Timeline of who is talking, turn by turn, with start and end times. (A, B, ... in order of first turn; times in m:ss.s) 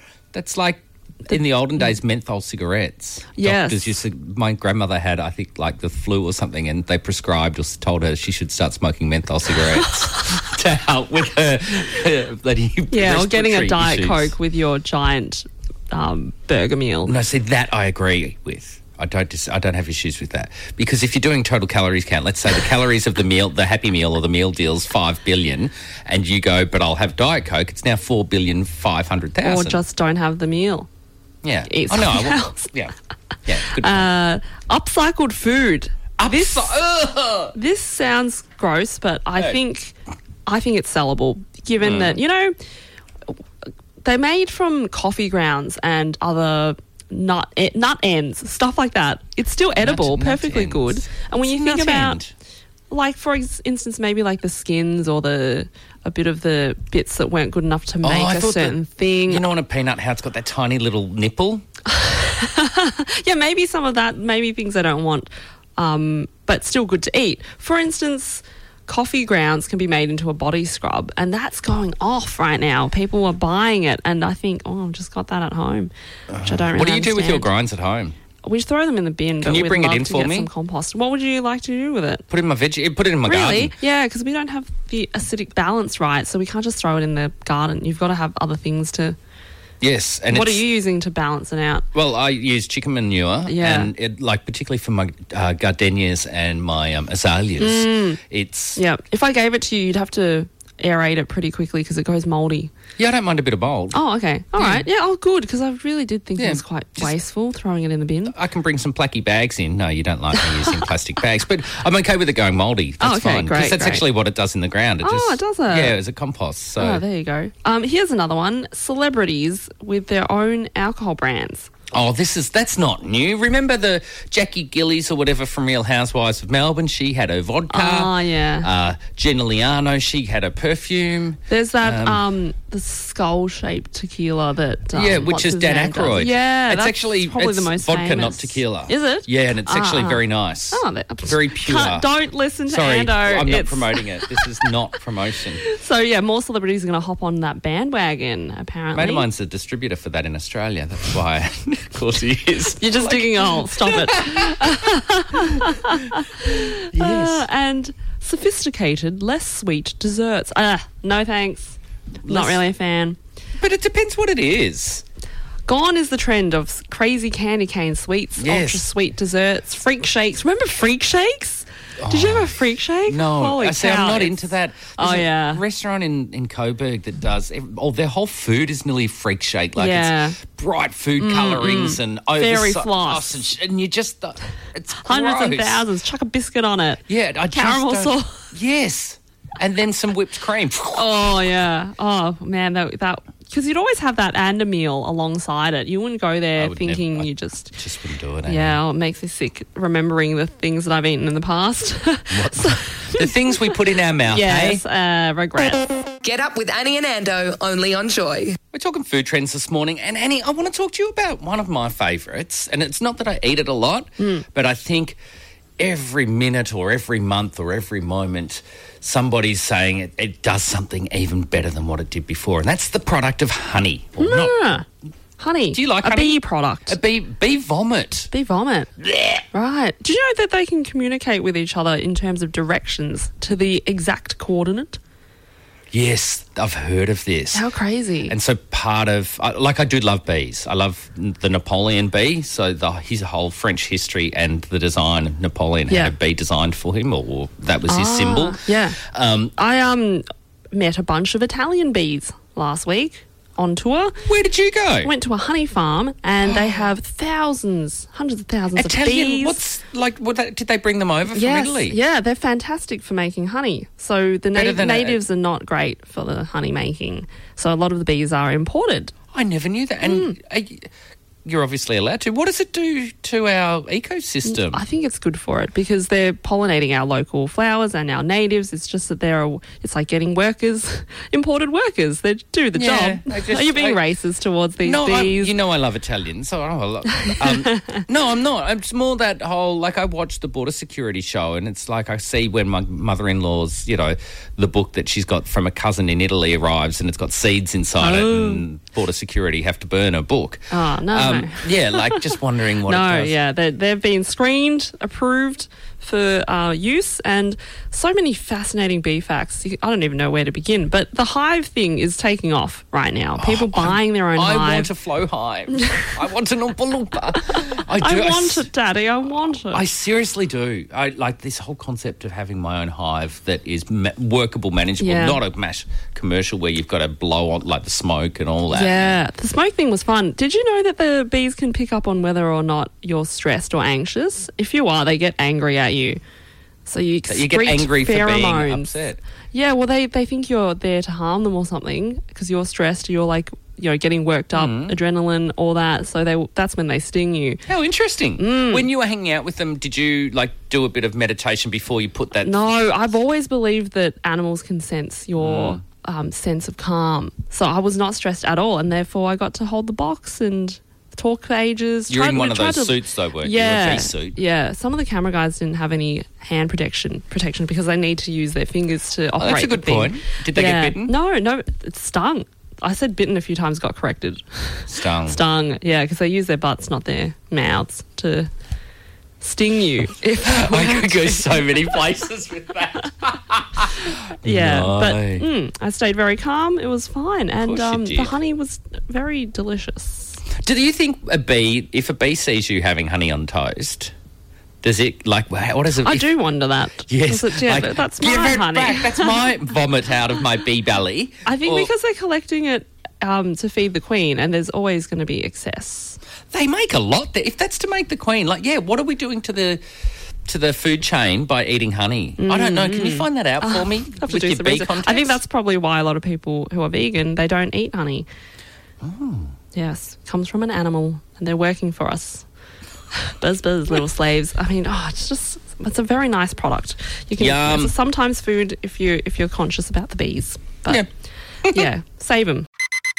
0:00.3-0:14.4 A
0:03.4-0:04.0 B
0:12.9-0:17.2 B
0:17.0-0:29.8 A
0:29.4-0:30.9 B
0:31.4-0:32.9 A
0:31.7-0:32.7 B
0:33.4-0:34.1 A
0:33.8-0:36.8 B
0:36.2-0:37.5 A
0:37.5-0:40.0 B
0:40.5-0:42.6 B
0:41.8-0:42.2 A
0:44.0-0:52.2 B
0:49.8-0:52.3 A
0:52.9-0:59.4 B
0:58.0-1:01.6 A
1:01.9-1:15.9 B
1:16.3-1:18.2 A
1:16.4-1:17.5 B
1:18.4-1:22.2 B
1:19.4-1:20.5 A
1:22.3-1:23.8 A
1:23.2-1:29.2 B
1:29.8-1:30.6 A
1:30.3-1:31.9 B
1:31.9-1:38.8 A
1:33.5-1:33.9 B
1:37.6-1:38.2 B
1:38.8-1:42.7 B
1:43.0-1:44.0 A
1:43.9-1:48.4 B
1:44.6-1:44.8 A
1:46.4-1:47.2 A
1:48.3-1:57.0 A
1:53.0-1:54.0 B
1:55.0-1:56.0 B
1:56.8-2:01.7 B
2:01.9-2:12.2 A
2:07.7-2:08.7 B
2:11.5-2:24.4 B
2:14.9-2:22.1 A
2:22.7-2:25.6 A
2:25.6-2:29.3 B
2:28.9-2:37.5 A
2:32.8-2:43.2 B
2:42.2-2:42.6 A
2:43.6-2:45.0 A
2:45.7-2:55.6 B
2:48.4-2:48.9 A
2:52.0-3:05.9 A
2:59.8-3:00.4 B
3:01.2-3:03.4 B
3:05.0-3:08.4 B
3:07.1-3:11.3 A
3:10.9-3:17.8 B
3:16.6-3:18.8 A
3:18.5-3:23.8 B
3:22.3-3:24.8 A
3:24.3-3:25.8 B
3:26.2-3:28.6 C
3:28.7-3:35.2 A
3:34.2-3:34.4 B
3:35.8-3:44.6 A
3:44.2-3:44.8 B
3:45.4-3:47.0 B
3:45.7-3:48.3 A
3:48.3-3:48.9 B
3:49.0-3:49.4 A
3:49.5-3:55.0 B
3:55.9-3:57.7 A
3:57.5-3:58.4 B
3:58.3-4:09.5 A
4:05.9-4:06.2 B
4:07.9-4:09.0 B
4:09.6-4:14.2 B
4:14.2-4:15.1 A
4:15.0-4:19.6 B
4:16.5-4:16.8 A
4:18.8-4:22.0 A
4:21.3-4:29.1 B
4:24.5-4:25.2 A
4:29.3-4:30.9 A
4:30.0-4:30.4 B
4:31.4-4:34.8 A
4:34.5-4:45.6 B
4:42.8-4:44.0 A
4:44.8-5:03.4 A
4:47.3-4:48.0 B
4:58.0-4:58.6 B
5:00.7-5:02.3 B
5:02.9-5:14.9 B
5:13.4-5:18.7 A
5:17.5-5:19.8 B
5:19.5-5:29.2 A
5:25.0-5:25.4 B
5:28.7-5:36.2 B
5:36.9-5:38.9 B
5:37.3-5:39.2 A
5:39.5-5:47.6 B
5:44.5-5:45.0 A
5:47.7-5:52.7 A
5:48.4-5:48.9 B
5:52.4-6:18.5 B
5:55.4-5:55.8 A
6:02.1-6:04.4 A
6:09.4-6:11.1 A
6:14.9-6:15.4 A
6:19.4-6:22.0 B
6:20.4-6:25.5 A
6:24.4-6:30.4 B
6:27.6-6:28.3 A
6:30.6-6:34.1 A
6:34.8-6:36.3 A
6:36.0-6:39.4 B
6:37.1-6:41.9 A
6:41.5-6:46.2 B
6:46.5-6:49.8 A
6:50.5-6:55.4 A
6:52.4-6:58.3 B
6:59.0-6:59.5 A
6:59.7-7:02.5 B
7:03.2-7:11.0 B
7:07.4-7:08.0 A
7:11.6-7:11.9 A
7:11.7-7:12.7 B